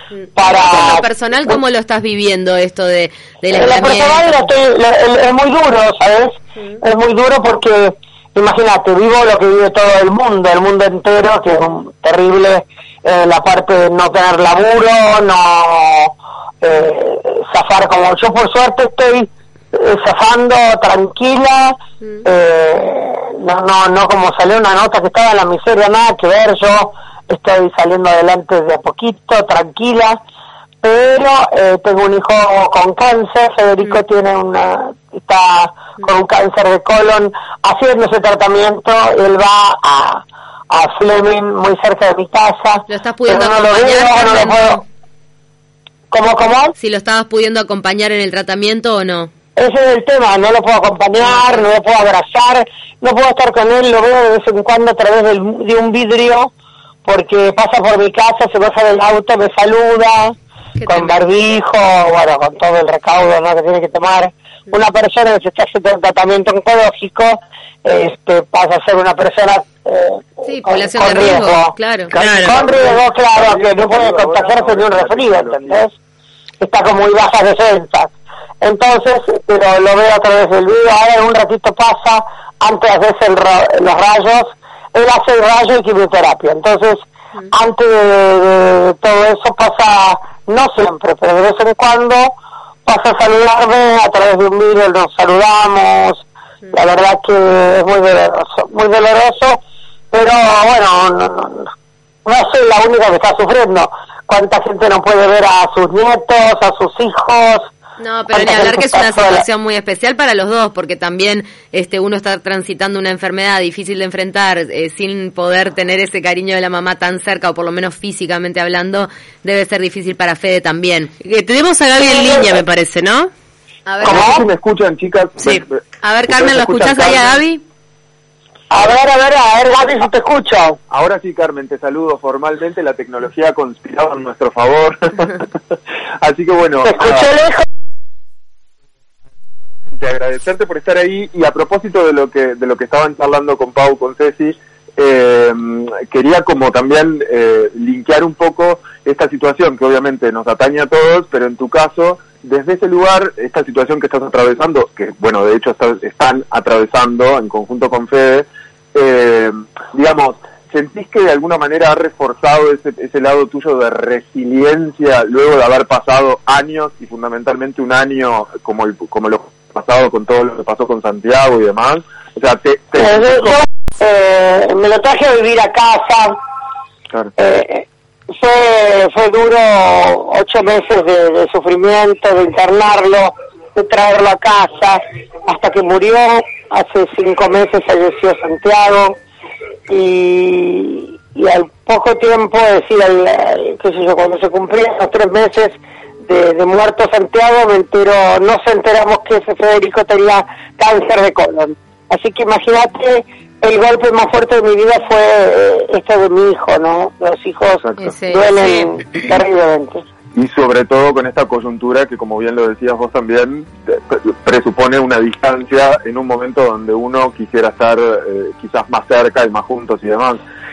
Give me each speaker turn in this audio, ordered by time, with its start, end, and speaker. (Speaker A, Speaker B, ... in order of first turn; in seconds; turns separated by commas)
Speaker A: 0.3-1.6, Speaker B: 0.4-4.5, Speaker A: 3.5-30.2, Speaker A: 30.8-44.8, Speaker B: 42.9-44.8, Speaker A: 46.1-46.7, Speaker B: 46.8-49.3, Speaker A: 49.5-56.5, Speaker B: 51.2-51.7, Speaker A: 57.0-75.9, Speaker B: 60.8-61.2, Speaker B: 70.4-72.1, Speaker C: 72.2-72.5, Speaker D: 72.4-75.8, Speaker A: 76.6-92.3, Speaker A: 92.8-99.6, Speaker A: 100.1-101.7, Speaker A: 102.2-107.7, Speaker B: 108.0-121.1, Speaker A: 108.3-109.4, Speaker C: 121.2-123.3, Speaker A: 122.0-122.5, Speaker B: 123.8-124.4, Speaker A: 124.0-124.5, Speaker D: 124.0-127.4, Speaker B: 126.0-127.6, Speaker A: 128.7-130.8, Speaker D: 130.9-135.5, Speaker D: 136.2-137.3, Speaker A: 136.8-137.6, Speaker D: 139.9-173.6, Speaker A: 173.0-176.4, Speaker A: 177.4-189.2, Speaker A: 189.9-210.0, Speaker D: 207.8-208.1, Speaker B: 208.0-208.8, Speaker D: 210.3-220.4